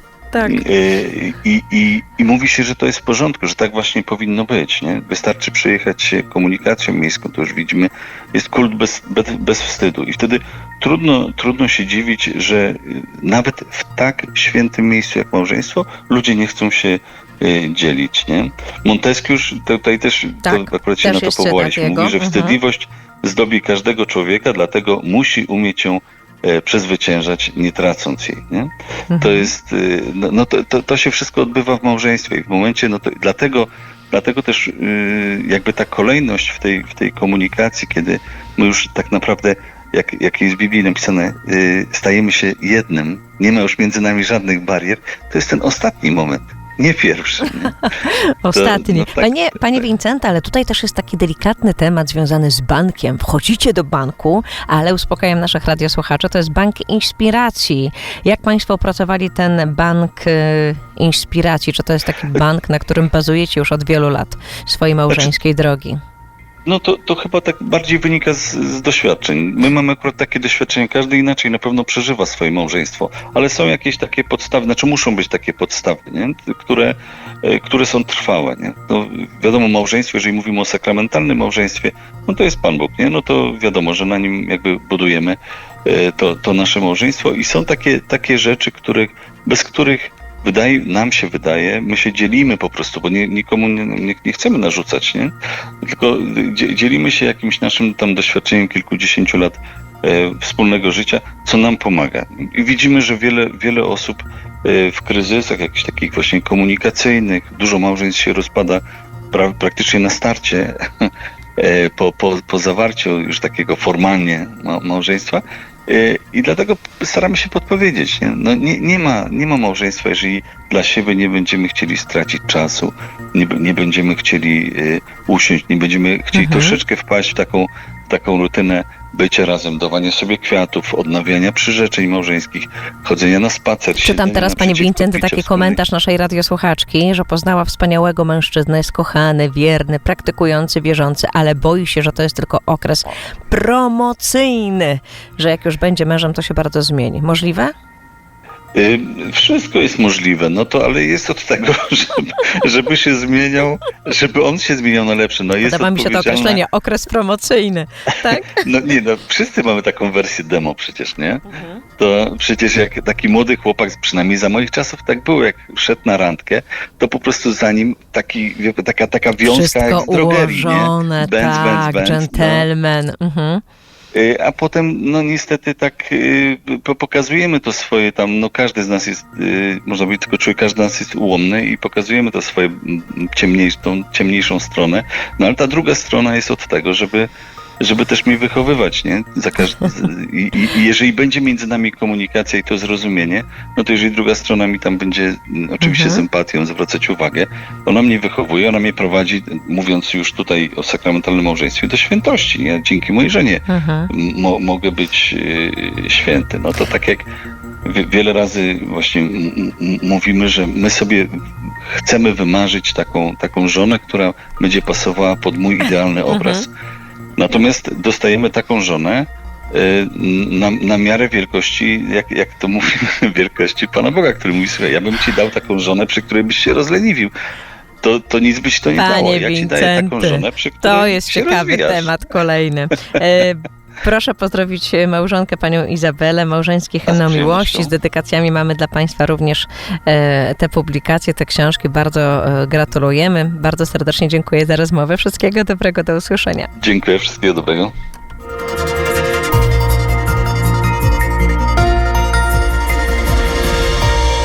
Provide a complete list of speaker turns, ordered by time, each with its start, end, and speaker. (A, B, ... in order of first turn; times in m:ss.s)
0:00.3-0:00.6 A
0:00.4-0:47.8 B
0:20.4-0:22.6 A
0:29.1-0:29.5 A
0:48.0-1:06.0 A
0:48.5-0:49.8 B
1:06.6-2:15.8 B
2:06.3-2:06.8 A
2:14.0-2:27.7 A
2:28.8-2:36.6 B
2:35.6-2:38.6 A
2:38.5-2:41.4 B
2:41.5-2:41.8 A
2:42.0-2:52.7 B
2:49.4-2:53.6 A
2:54.1-3:07.3 B
3:07.8-3:27.2 B
3:15.8-3:16.2 A
3:23.7-3:24.1 A
3:27.8-3:31.3 B
3:31.9-3:36.7 B
3:36.3-3:36.6 A
3:37.4-3:47.3 B
3:48.0-3:52.1 B
3:48.9-4:06.7 A
3:57.0-3:57.9 B
4:06.8-4:07.9 B